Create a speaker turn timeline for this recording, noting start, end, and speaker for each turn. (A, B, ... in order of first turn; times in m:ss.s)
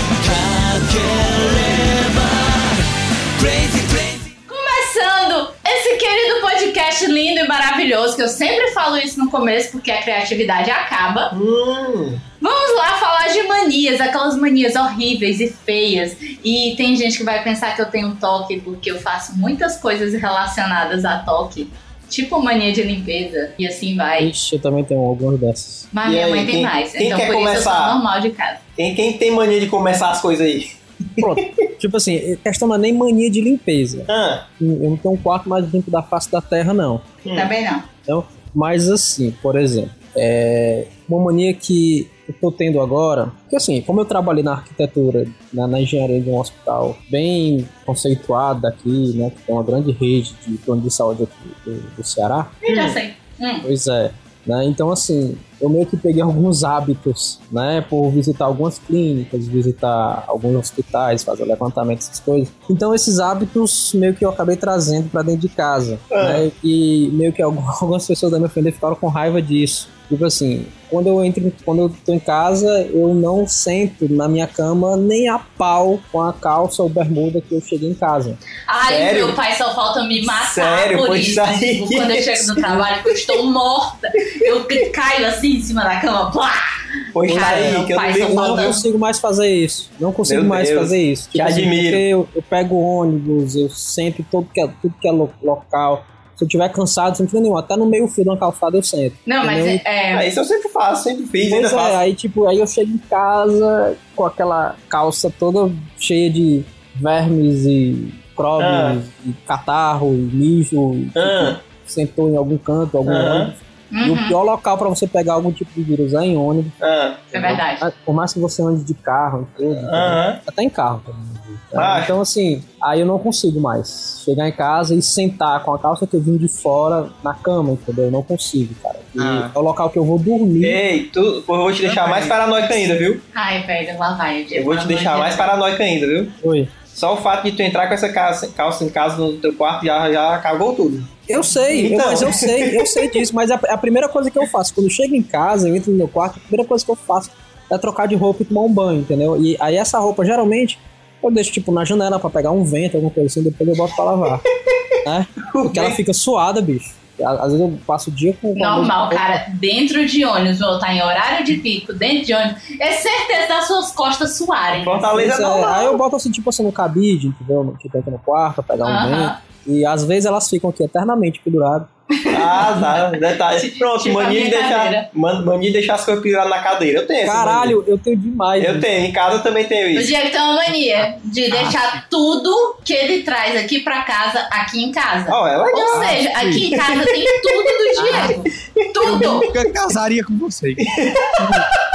0:00.2-0:04.3 A
0:04.5-0:11.3 B
0:11.3-0:12.2 C
0:12.4-0:24.3 B
0:24.2-0:25.9 D
0:25.9-0:28.6 B
0:26.0-0:28.0 C
0:28.8-0:31.5 C
0:31.2-0:37.0 D
0:34.1-0:34.4 C
0:37.2-0:37.5 C
0:37.3-0:37.9 B
0:38.1-0:52.5 D
0:52.6-0:53.6 B
0:52.7-0:53.0 C
0:53.6-1:18.4 D
1:06.1-1:06.4 C
1:18.7-1:26.7 B
1:18.8-1:19.4 C
1:20.3-1:22.8 C
1:27.1-1:28.8 C
1:27.2-1:28.8 B
1:27.3-1:39.8 D
1:30.2-1:32.0 C
1:39.3-1:40.3 B
1:40.1-1:42.0 C
1:41.5-1:56.8 D
1:48.6-1:49.0 C
1:51.1-1:51.6 C
1:53.0-1:53.5 C
1:53.9-1:54.3 B
1:56.8-1:57.3 C
1:57.3-2:10.8 D
1:57.3-1:57.8 B
1:59.8-2:00.4 C
2:01.7-2:02.1 C
2:09.2-2:09.5 E
2:10.6-2:13.2 C
2:11.8-2:12.4 E
2:13.3-2:15.5 B
2:14.5-2:16.3 C
2:16.4-2:16.7 D
2:16.9-2:23.2 C
2:21.3-2:34.4 D
2:35.0-2:39.4 D
2:35.5-2:36.0 C
2:38.6-2:45.2 B
2:44.7-2:46.0 C
2:45.1-2:51.9 D
2:48.8-2:49.4 B
2:52.1-2:55.1 B
2:52.3-2:57.8 C
2:57.2-2:58.9 D
2:58.6-3:00.1 C
2:59.9-3:09.5 B
3:01.5-3:01.8 E
3:05.3-3:06.2 C
3:05.9-3:06.7 E
3:06.7-3:07.2 C
3:08.0-3:08.4 E
3:08.0-3:08.4 C
3:09.0-3:11.6 E
3:09.1-3:09.3 C
3:10.8-3:11.5 C